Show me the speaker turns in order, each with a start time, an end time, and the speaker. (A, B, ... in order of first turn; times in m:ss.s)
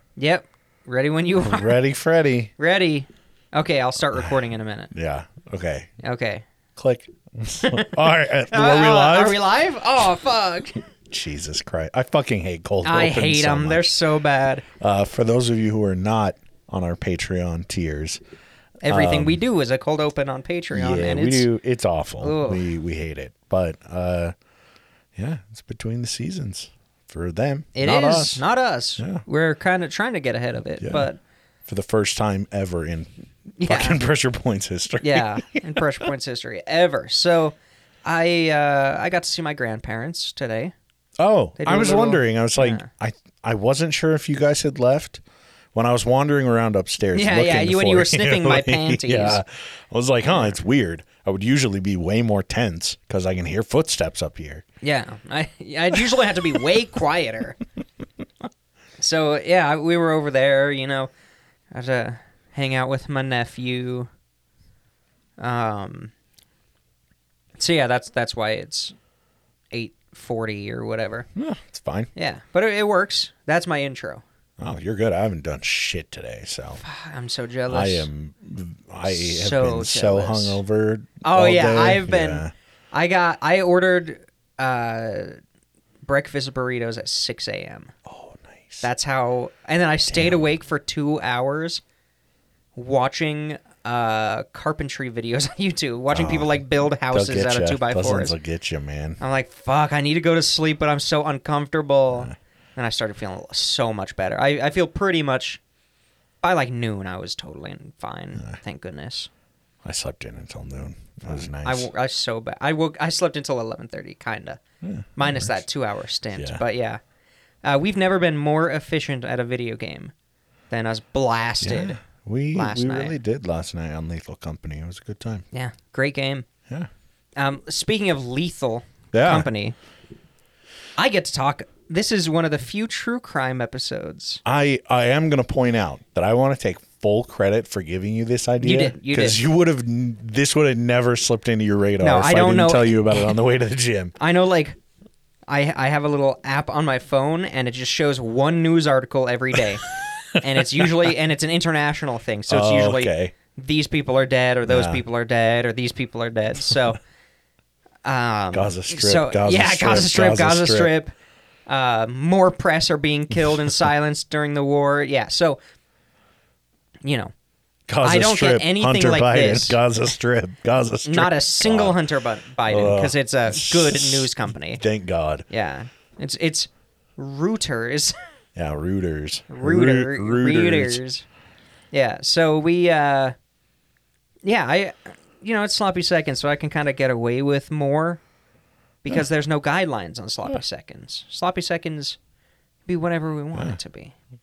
0:00.2-0:01.8 A
0:01.4-0:02.5 B
0:02.6-0:04.9 A
0:04.1-0:05.9 B
0:06.0-0:06.4 A
0:06.8-0:09.4 B
0:07.6-0:08.0 A
0:08.5-0:10.8 A
0:11.1-0:13.9 B
0:12.8-0:14.6 A
0:14.7-0:18.2 B
0:18.8-0:21.5 A
0:18.9-0:19.4 B
0:20.7-0:24.3 B
0:22.2-0:22.7 A
0:25.2-0:28.4 B
0:27.7-0:31.2 A
0:30.8-0:31.1 B
0:31.7-0:33.1 B
0:33.6-0:34.0 A
0:33.6-0:36.1 B
0:35.0-0:40.7 A
0:41.2-0:45.2 B
0:41.6-0:42.9 A
0:45.7-0:54.6 B
0:47.1-0:49.4 A
0:54.8-0:57.6 A
0:59.0-1:01.1 A
1:01.7-1:04.1 A
1:05.4-1:06.1 A
1:07.6-1:08.9 A
1:09.7-1:11.3 A
1:11.4-1:12.1 B
1:12.1-1:14.2 A
1:14.6-1:16.8 B
1:16.8-1:18.1 A
1:17.7-1:22.5 B
1:19.1-1:20.6 A
1:21.2-1:25.4 A
1:26.0-1:27.9 A
1:28.0-1:28.8 B
1:28.8-1:31.8 A
1:30.1-1:30.4 B
1:32.8-1:38.4 A
1:36.1-1:39.2 B
1:39.2-1:45.6 A
1:46.4-1:49.3 A
1:49.8-1:51.9 B
1:51.3-1:54.6 A
1:54.8-1:55.6 B
1:55.2-1:57.0 A
1:56.4-1:56.6 B
1:57.6-2:00.1 A
2:00.7-2:02.0 A
2:01.6-2:05.4 B
2:02.5-2:03.1 A
2:05.5-2:06.4 A
2:07.4-2:09.8 A
2:09.1-2:09.5 B
2:11.0-2:14.4 A
2:14.4-2:24.1 B
2:18.6-2:19.4 A
2:22.0-2:23.3 A
2:24.2-2:24.8 A
2:25.5-2:37.0 A
2:30.8-2:31.1 B
2:32.5-2:33.3 B
2:34.6-2:35.0 B
2:38.0-2:41.1 A
2:38.5-2:40.9 B
2:41.7-2:45.6 A
2:47.0-2:47.3 A
2:47.9-2:52.0 B
2:48.0-2:49.8 A
2:51.0-2:54.8 A
2:52.7-2:55.4 B
2:55.5-2:58.1 A
2:58.5-3:01.0 B
2:59.5-3:01.2 A
3:01.9-3:03.3 A
3:04.4-3:08.2 A
3:09.0-3:12.2 A
3:12.9-3:14.1 A